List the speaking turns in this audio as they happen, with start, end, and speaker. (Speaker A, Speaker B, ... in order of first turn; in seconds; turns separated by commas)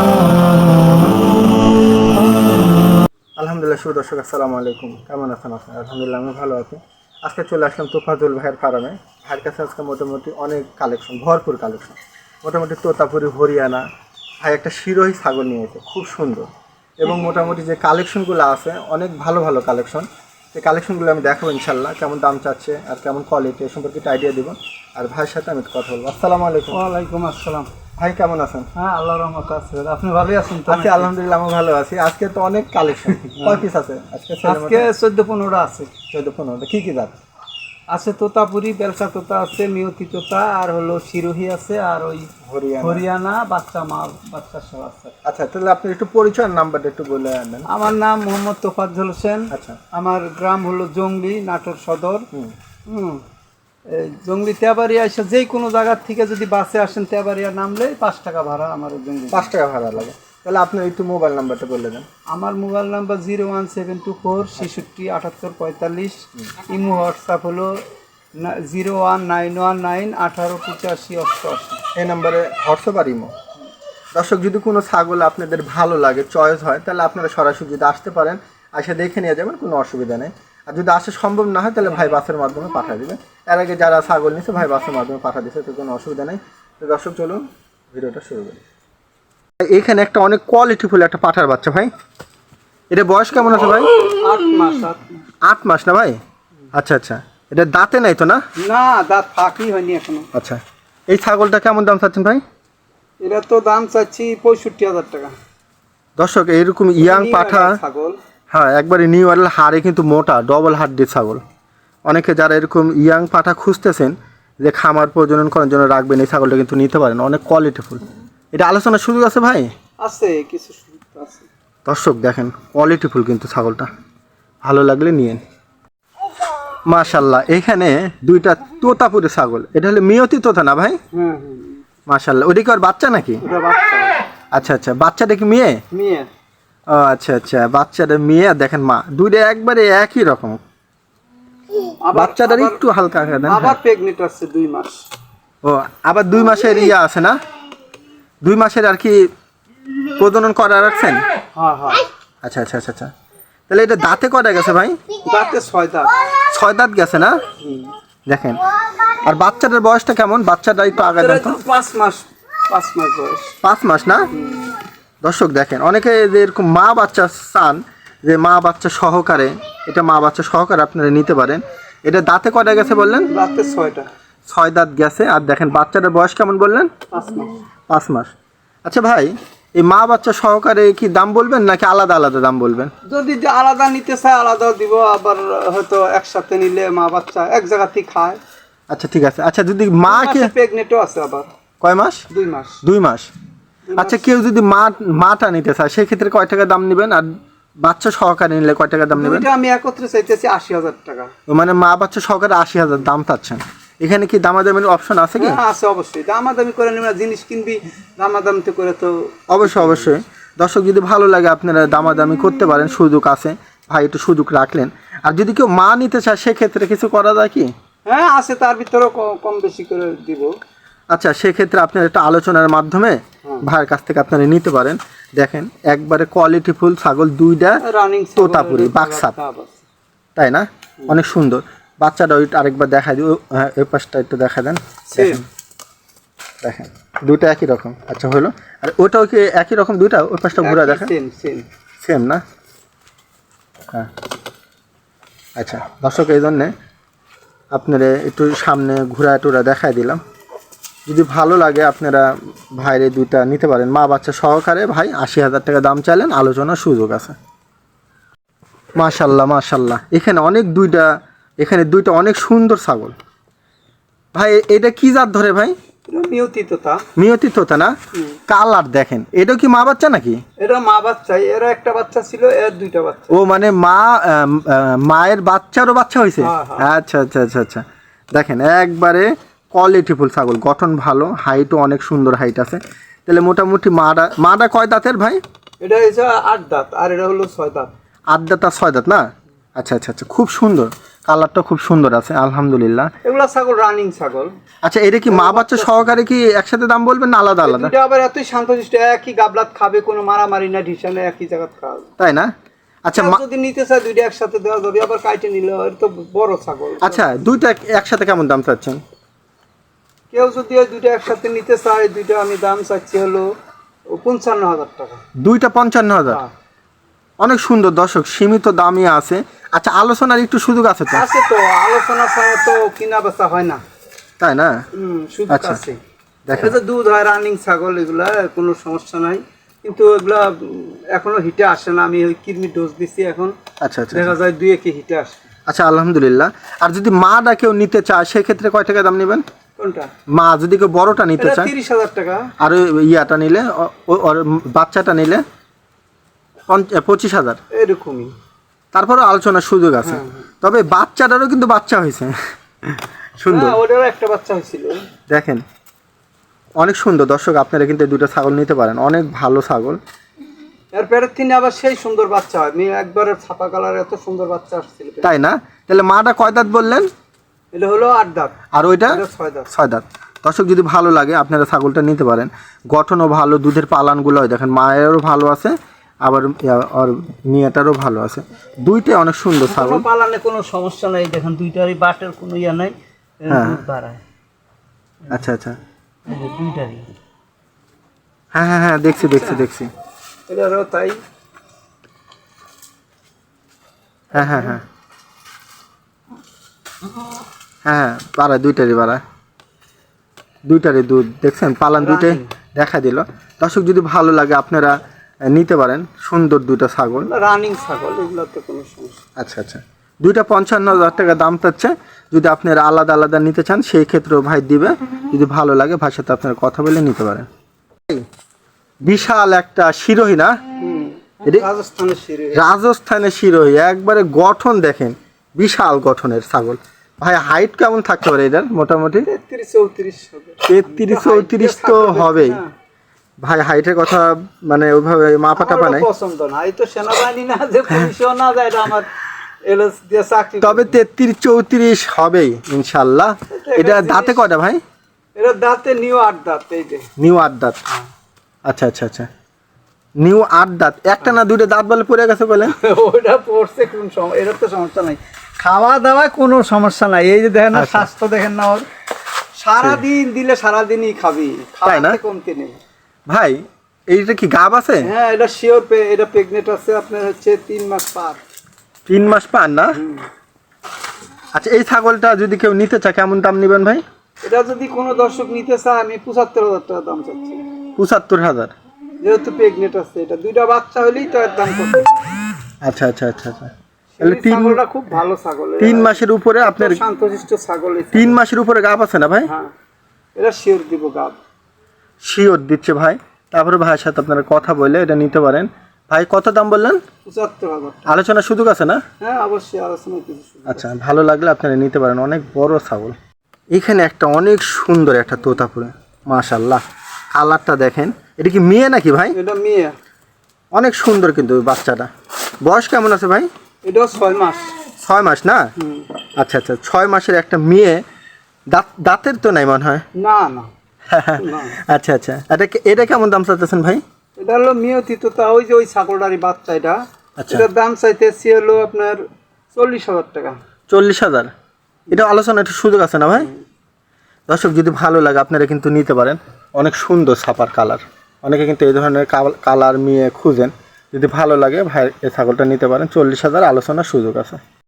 Speaker A: 3.4-13.8, Speaker A: 14.4-16.5, Speaker A: 17.0-26.8, Speaker B: 26.7-27.7, Speaker A: 28.0-28.7, Speaker B: 28.7-31.1, Speaker A: 30.7-34.9, Speaker B: 33.1-33.6, Speaker B: 34.4-35.9, Speaker A: 36.1-37.1, Speaker B: 37.9-42.3, Speaker A: 42.4-43.0, Speaker B: 42.8-45.1, Speaker A: 45.2-47.7, Speaker B: 47.7-52.3, Speaker A: 49.5-49.8, Speaker B: 52.9-53.2, Speaker B: 53.9-59.5, Speaker A: 59.3-62.0, Speaker B: 62.3-67.8, Speaker B: 68.4-71.8, Speaker A: 71.9-73.3, Speaker A: 74.1-88.6, Speaker B: 81.8-82.2, Speaker A: 89.6-91.9, Speaker A: 92.9-93.9, Speaker B: 94.0-95.2, Speaker A: 95.4-96.2, Speaker A: 96.7-98.4, Speaker B: 98.6-100.3, Speaker A: 100.3-102.4, Speaker B: 103.2-105.3, Speaker A: 106.2-107.8, Speaker B: 107.0-108.2, Speaker A: 108.5-111.4, Speaker A: 112.1-119.7, Speaker B: 120.0-121.5, Speaker A: 121.8-123.9, Speaker A: 124.6-125.4, Speaker A: 126.9-131.0, Speaker B: 131.1-131.8, Speaker A: 132.1-133.4, Speaker B: 133.4-134.2, Speaker A: 134.5-135.8, Speaker B: 135.9-136.3, Speaker A: 136.9-140.6, Speaker B: 142.0-142.8, Speaker A: 142.1-143.8, Speaker B: 143.4-145.0, Speaker A: 145.6-147.4, Speaker A: 148.4-149.3, Speaker A: 150.2-151.2, Speaker B: 151.5-152.1, Speaker A: 152.4-153.1, Speaker A: 153.7-155.0, Speaker B: 155.2-156.2, Speaker A: 156.5-157.4, Speaker B: 157.6-157.9, Speaker A: 158.3-158.6, Speaker A: 159.2-161.6, Speaker B: 160.9-163.5, Speaker A: 163.6-164.3, Speaker B: 164.3-164.6, Speaker A: 165.2-173.3, Speaker B: 173.3-174.1, Speaker A: 174.5-176.9, Speaker B: 177.1-177.5, Speaker A: 177.9-178.3, Speaker A: 178.8-182.9, Speaker B: 183.1-188.4, Speaker A: 188.9-190.5, Speaker B: 190.0-191.5, Speaker A: 191.8-192.2, Speaker B: 192.3-192.8, Speaker A: 192.8-193.3, Speaker B: 193.9-194.3, Speaker A: 193.9-197.2, Speaker A: 197.8-199.4, Speaker B: 199.1-201.3, Speaker A: 201.5-205.6, Speaker B: 205.4-210.1, Speaker A: 209.5-217.7, Speaker B: 218.1-220.5, Speaker A: 221.1-227.8, Speaker B: 227.8-229.8, Speaker A: 228.4-229.3, Speaker A: 230.3-235.4, Speaker B: 235.1-235.4, Speaker A: 236.6-241.1, Speaker B: 240.6-241.7, Speaker A: 242.0-242.4, Speaker A: 245.6-246.7, Speaker A: 247.7-250.2, Speaker A: 251.1-257.3, Speaker A: 258.9-263.1, Speaker A: 264.3-265.7, Speaker B: 266.1-267.0, Speaker A: 267.1-267.9, Speaker B: 268.1-268.4, Speaker A: 268.5-270.4, Speaker B: 270.6-273.3, Speaker A: 273.3-277.8, Speaker B: 276.4-276.9, Speaker A: 278.3-285.4, Speaker B: 285.8-287.9, Speaker A: 288.3-293.1, Speaker B: 293.2-294.5, Speaker A: 294.8-297.9, Speaker B: 295.3-296.1, Speaker B: 297.6-302.1, Speaker A: 302.2-302.5, Speaker A: 303.0-303.4, Speaker B: 303.1-307.2, Speaker A: 307.0-309.0, Speaker B: 310.3-313.5, Speaker B: 314.1-315.2, Speaker A: 315.4-316.4, Speaker A: 317.4-321.2, Speaker B: 321.1-323.8, Speaker A: 324.4-324.8, Speaker B: 324.9-326.0, Speaker A: 325.5-325.8, Speaker A: 326.4-326.8, Speaker B: 326.5-333.5, Speaker A: 333.8-334.3, Speaker B: 334.1-335.4, Speaker A: 335.7-339.4, Speaker B: 339.8-340.1, Speaker A: 340.3-341.7, Speaker B: 341.4-342.5, Speaker A: 342.6-345.4, Speaker A: 346.7-347.6, Speaker B: 347.7-348.3, Speaker A: 348.9-352.3, Speaker B: 350.0-350.4, Speaker A: 352.9-353.8, Speaker B: 353.5-355.0, Speaker A: 355.3-355.6, Speaker A: 356.8-360.0, Speaker B: 360.9-365.3, Speaker A: 365.2-367.1, Speaker B: 367.7-369.7, Speaker A: 368.7-380.0, Speaker B: 379.7-384.2, Speaker A: 383.5-383.8, Speaker A: 385.3-385.8, Speaker B: 386.3-387.1, Speaker A: 388.5-389.9, Speaker B: 389.2-389.7, Speaker B: 390.5-391.2, Speaker B: 394.3-394.8, Speaker A: 394.3-394.8, Speaker A: 397.8-399.2, Speaker A: 400.6-405.0, Speaker B: 402.0-402.5, Speaker A: 405.5-407.3, Speaker B: 407.2-409.2, Speaker A: 409.4-417.5, Speaker A: 419.0-420.6, Speaker B: 420.8-422.7, Speaker A: 422.5-429.3, Speaker B: 429.2-432.7, Speaker A: 430.7-432.6, Speaker A: 433.4-436.1, Speaker B: 435.6-441.0, Speaker A: 440.6-444.8, Speaker B: 443.5-444.4, Speaker B: 445.4-447.1, Speaker A: 447.2-447.8, Speaker A: 448.6-449.3, Speaker A: 450.2-452.8, Speaker B: 452.6-458.9, Speaker A: 457.7-458.1, Speaker B: 459.6-462.8, Speaker A: 461.9-462.2, Speaker A: 463.3-465.1, Speaker B: 465.0-468.4, Speaker A: 469.1-470.0, Speaker B: 469.9-470.2, Speaker A: 471.5-474.0, Speaker B: 474.4-477.6, Speaker A: 478.0-478.7, Speaker B: 479.2-482.2, Speaker A: 482.8-484.8, Speaker B: 484.2-488.4, Speaker A: 485.8-487.0, Speaker A: 488.1-489.5, Speaker B: 489.4-489.7, Speaker B: 490.4-491.4, Speaker A: 492.2-497.0, Speaker B: 497.2-498.1, Speaker A: 498.1-499.0, Speaker B: 499.2-500.9, Speaker A: 500.7-503.1, Speaker A: 503.7-506.8, Speaker A: 507.3-509.4, Speaker B: 509.3-509.9, Speaker A: 510.7-512.1, Speaker A: 512.6-513.5, Speaker B: 513.8-514.7, Speaker A: 515.0-515.7, Speaker B: 515.8-516.1, Speaker A: 516.4-518.0, Speaker A: 518.7-520.0, Speaker B: 520.1-520.7, Speaker A: 521.1-524.0, Speaker B: 521.4-521.8, Speaker B: 524.4-529.2, Speaker A: 527.4-527.6, Speaker B: 529.7-530.6, Speaker A: 530.9-531.5, Speaker A: 532.1-533.5, Speaker A: 534.5-544.6